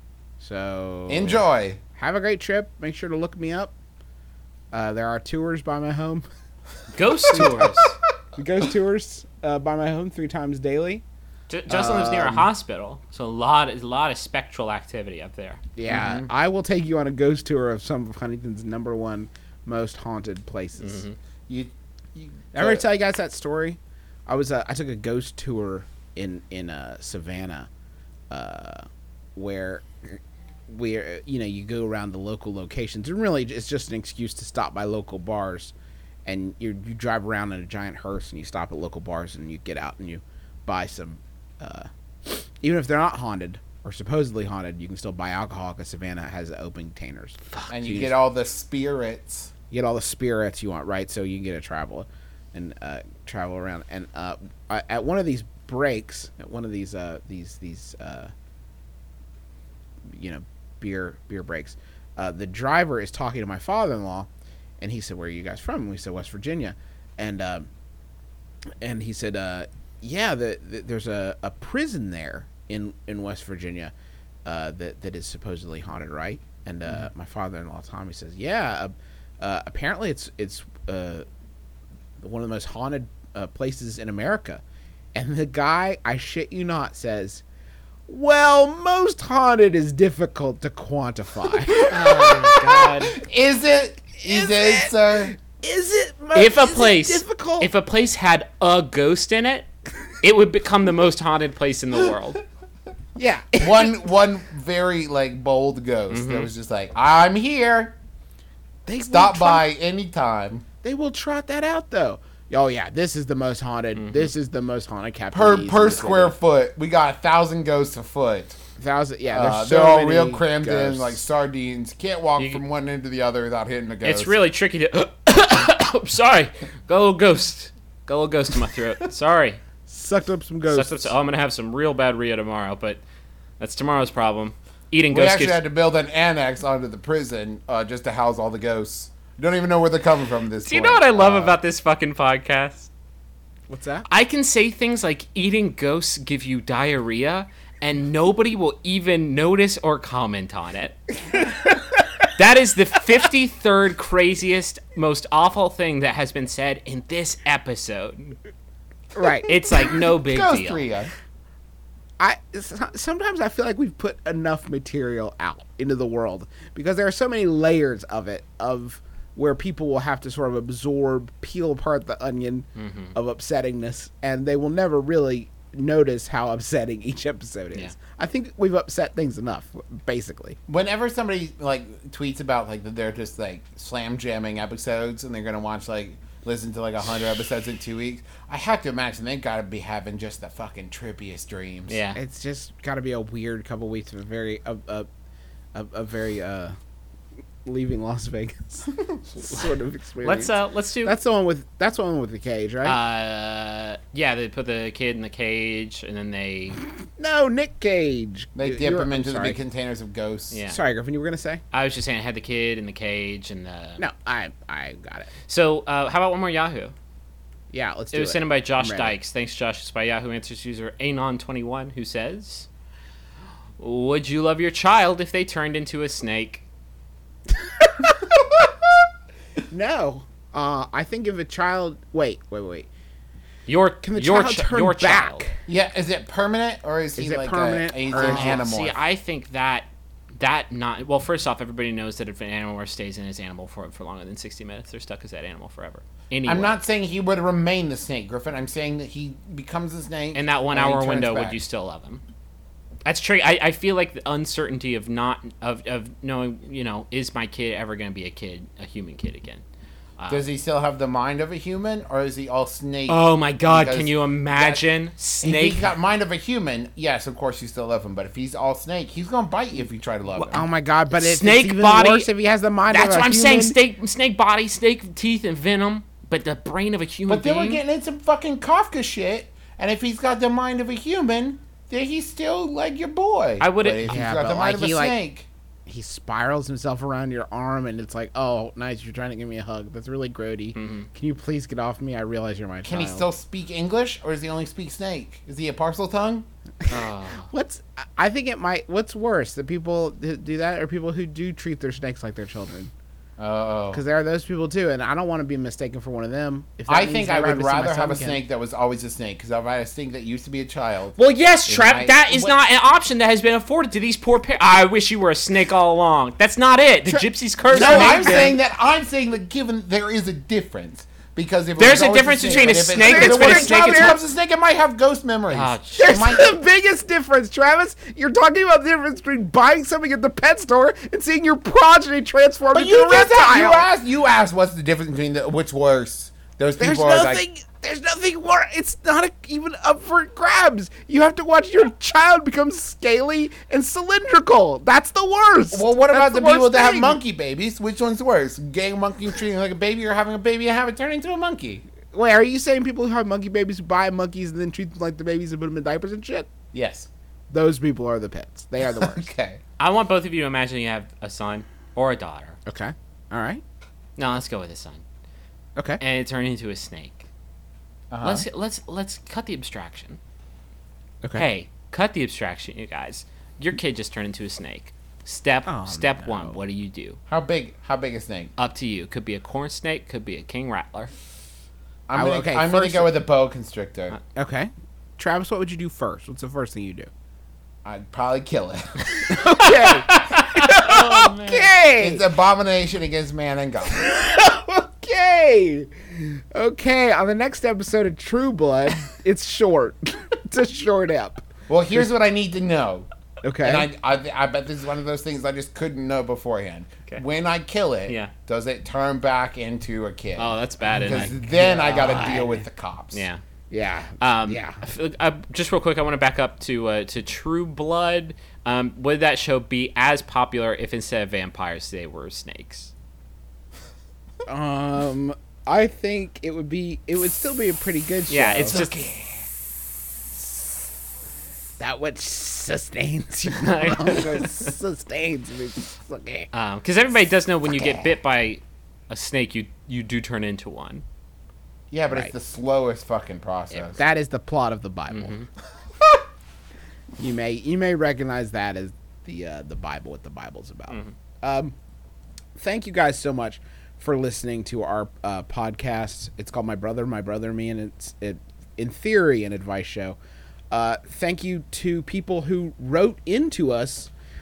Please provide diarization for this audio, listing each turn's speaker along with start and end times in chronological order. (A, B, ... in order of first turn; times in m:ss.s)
0:00.4-0:01.4 A
0:01.1-0:01.8 B
0:01.9-0:03.7 A
0:04.7-0:06.2 A
0:06.9-0:08.0 C
0:07.3-0:07.7 A
0:08.3-0:11.0 A
0:11.5-0:15.6 C
0:11.7-0:12.5 A
0:15.8-0:21.0 A
0:15.9-0:16.3 B
0:20.8-0:21.2 C
0:21.5-0:22.8 B
0:22.5-0:27.7 A
0:28.3-0:35.7 A
0:36.2-0:48.1 A
0:47.7-0:49.5 B
0:49.7-0:58.3 A
1:00.1-1:04.3 A
1:04.8-1:07.7 A
1:08.8-1:13.9 A
1:14.4-1:21.2 A
1:22.2-1:24.6 A
1:25.1-1:27.4 A
1:28.1-1:32.0 A
1:31.9-1:33.2 C
1:32.1-1:35.3 B
1:34.2-1:37.7 A
1:36.3-1:39.7 C
1:40.2-1:42.4 C
1:43.2-1:44.0 A
1:43.6-1:48.0 B
1:46.1-1:46.5 C
1:48.8-1:49.6 A
1:49.0-1:50.6 B
1:50.8-1:56.4 A
1:54.0-1:54.3 C
1:55.3-1:58.6 B
1:58.8-2:01.2 A
1:59.3-2:04.3 B
2:04.0-2:09.6 C
2:09.9-2:11.1 A
2:10.7-2:13.0 C
2:13.6-2:15.6 C
2:15.1-2:21.6 B
2:20.6-2:22.9 C
2:23.7-2:24.0 A
2:24.1-2:31.0 C
2:32.3-2:38.4 C
2:39.1-2:39.7 A
2:39.4-2:40.8 C
2:39.8-2:41.1 B
2:42.2-3:00.6 A
2:52.8-2:53.2 C
3:00.7-3:12.0 B
3:11.9-3:12.2 C
3:12.1-3:15.1 A
3:15.7-3:16.7 A
3:17.6-3:23.0 A
3:20.2-3:21.2 C
3:22.8-3:26.8 C
3:27.2-3:29.6 A
3:28.6-3:30.6 B
3:30.5-3:30.8 C
3:30.7-3:31.6 A
3:31.7-3:34.0 C
3:34.0-3:35.3 A
3:35.5-3:36.9 C
3:37.7-3:39.2 A
3:38.1-3:42.7 C
3:43.8-3:46.6 C
3:49.7-3:52.9 A
3:53.7-3:55.4 C
3:54.0-3:55.6 A
3:55.7-3:59.0 B
3:57.2-3:58.6 A
3:58.2-4:06.8 C
4:06.4-4:11.6 B
4:10.3-4:12.2 C
4:13.0-4:19.6 C
4:20.2-4:20.4 C
4:20.3-4:24.8 B
4:23.1-4:25.8 C
4:25.4-4:30.6 B
4:30.5-4:33.8 A
4:31.1-4:32.3 C
4:32.9-4:37.8 C
4:37.3-4:45.5 B
4:43.6-4:44.2 C
4:44.0-4:45.2 A
4:45.8-4:53.2 A
4:50.7-4:51.1 C
4:52.8-4:56.5 B
4:56.8-5:02.9 A
4:56.9-4:57.5 C
5:03.4-5:04.0 B
5:03.9-5:08.4 A
5:06.9-5:12.6 B
5:11.2-5:18.6 C
5:17.0-5:18.6 A
5:17.7-5:26.5 B
5:21.8-5:24.1 C
5:22.5-5:24.2 A
5:25.5-5:26.1 C
5:26.0-5:33.9 A
5:32.7-5:37.4 B
5:36.8-5:47.2 A
5:45.7-5:51.8 B
5:52.1-5:56.5 A
5:56.7-5:57.1 B
5:57.5-5:59.3 A
5:58.9-5:59.6 B
5:59.8-6:02.6 C
6:02.6-6:03.6 A
6:04.2-6:05.0 C
6:06.0-6:07.2 C
6:08.1-6:08.4 B
6:08.2-6:10.2 C
6:11.3-6:17.2 C
6:15.6-6:16.6 A
6:17.3-6:18.5 B
6:18.6-6:21.1 C
6:22.1-6:24.2 B
6:22.1-6:23.2 A
6:24.3-6:27.1 A
6:27.8-6:29.6 B
6:29.3-6:32.2 A
6:29.6-6:31.7 C
6:32.0-6:34.0 B
6:34.0-6:42.1 A
6:41.7-6:43.1 B
6:43.4-6:43.9 A
6:43.6-6:53.3 B
6:50.4-6:52.4 C
6:50.8-6:52.6 A
6:53.1-6:53.4 C
6:53.7-6:54.8 A
6:54.2-7:02.9 C
7:04.4-7:08.8 A
7:08.3-7:09.0 C
7:08.7-7:09.4 B
7:11.8-7:16.5 A
7:13.5-7:14.7 C
7:16.5-7:21.0 C
7:21.9-7:24.0 B
7:22.1-7:22.3 A
7:23.9-7:25.4 A
7:25.1-7:25.5 C
7:27.2-7:31.7 A
7:32.5-7:40.2 A
7:40.7-7:44.1 A